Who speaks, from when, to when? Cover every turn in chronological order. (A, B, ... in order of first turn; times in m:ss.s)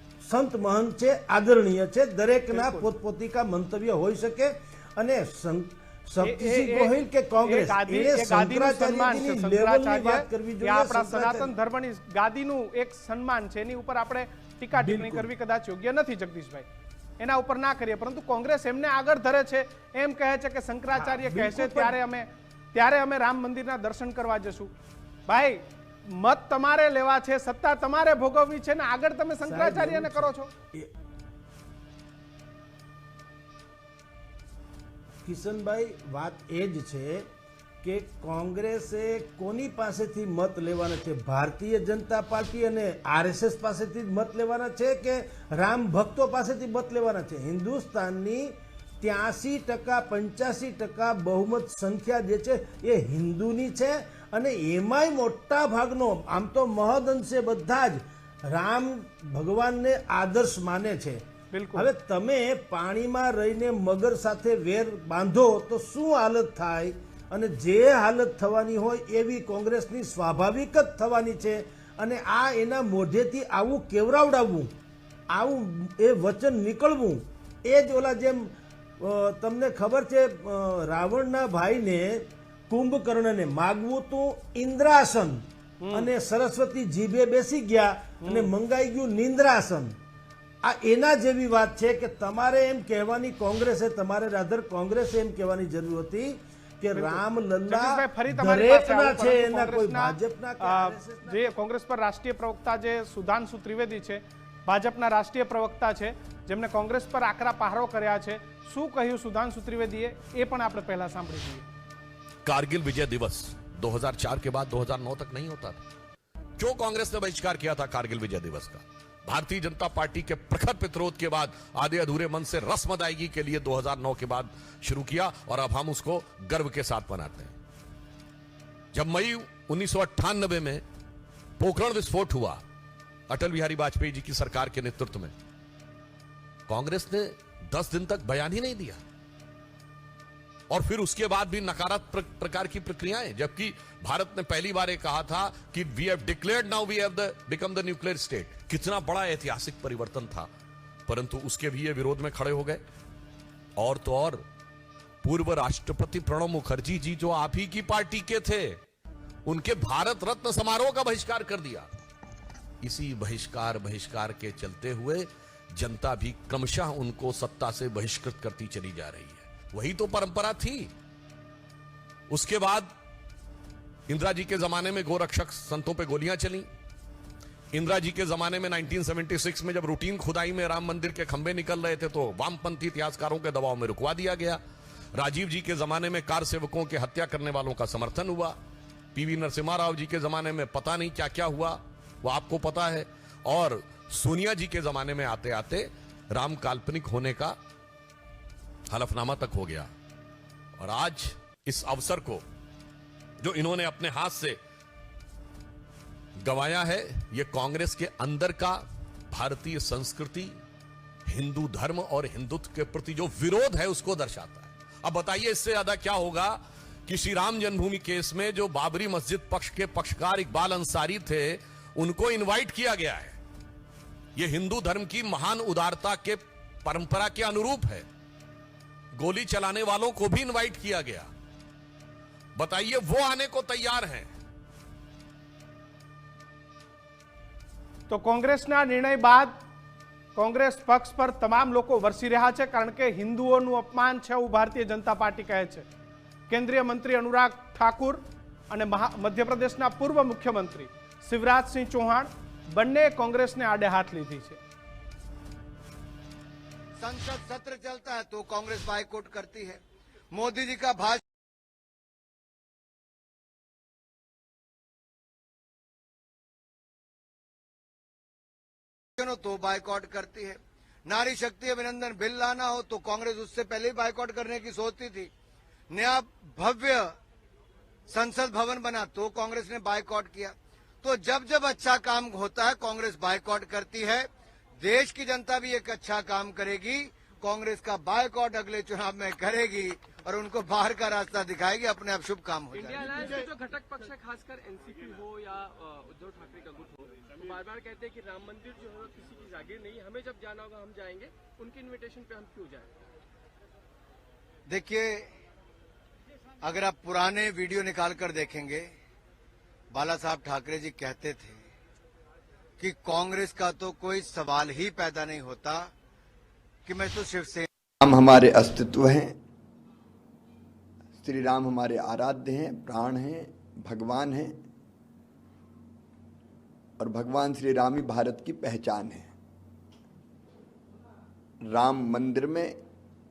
0:00.2-0:11.5 A
0:02.5-0:02.9 B
0:06.2-0:16.6 B
0:14.7-0:15.3 A
0:17.2-0:24.7 B
0:20.9-0:22.0 A
0:25.3-0:30.5 B
0:29.4-0:30.9 A
0:35.2-0:37.3 A
0:37.8-1:01.2 A
1:01.5-1:01.9 B
1:01.7-1:14.7 A
1:15.3-1:30.0 A
1:25.8-1:26.1 B
1:28.2-1:28.5 B
1:30.6-1:41.5 A
1:36.9-1:51.7 B
1:52.4-1:55.8 C
1:56.6-2:07.5 C
2:08.9-2:10.8 C
2:11.6-2:12.6 C
2:13.3-2:15.3 C
2:16.7-2:19.0 C
2:20.7-2:30.5 C
2:31.1-2:32.8 C
2:33.8-2:34.4 C
2:35.2-2:38.8 C
2:39.4-2:41.9 C
2:42.8-2:50.9 C
2:52.3-2:52.9 C
2:54.1-2:56.7 C
2:57.7-3:04.6 C
3:05.1-3:08.6 C
3:09.1-3:17.6 C
3:18.9-3:19.9 C
3:20.8-3:22.4 C
3:23.4-3:24.6 C
3:26.4-3:30.6 C
3:31.3-3:43.4 C
3:44.4-3:48.0 C
3:49.2-3:51.3 C
3:52.6-3:54.3 C
3:58.1-3:59.5 B
4:00.4-4:05.8 B
4:06.5-4:14.6 B
4:17.0-4:21.2 D
4:29.2-4:35.3 D
4:35.9-4:37.1 D
4:38.1-4:44.3 D
4:44.8-4:53.5 D
4:52.7-5:02.9 E
5:04.7-5:05.3 D
5:06.6-5:08.9 D
5:09.9-5:11.6 D
5:12.8-5:15.9 D
5:16.8-5:17.7 D
5:18.0-5:19.4 F
5:21.2-5:24.6 F
5:27.0-5:29.3 F
5:31.6-5:32.8 F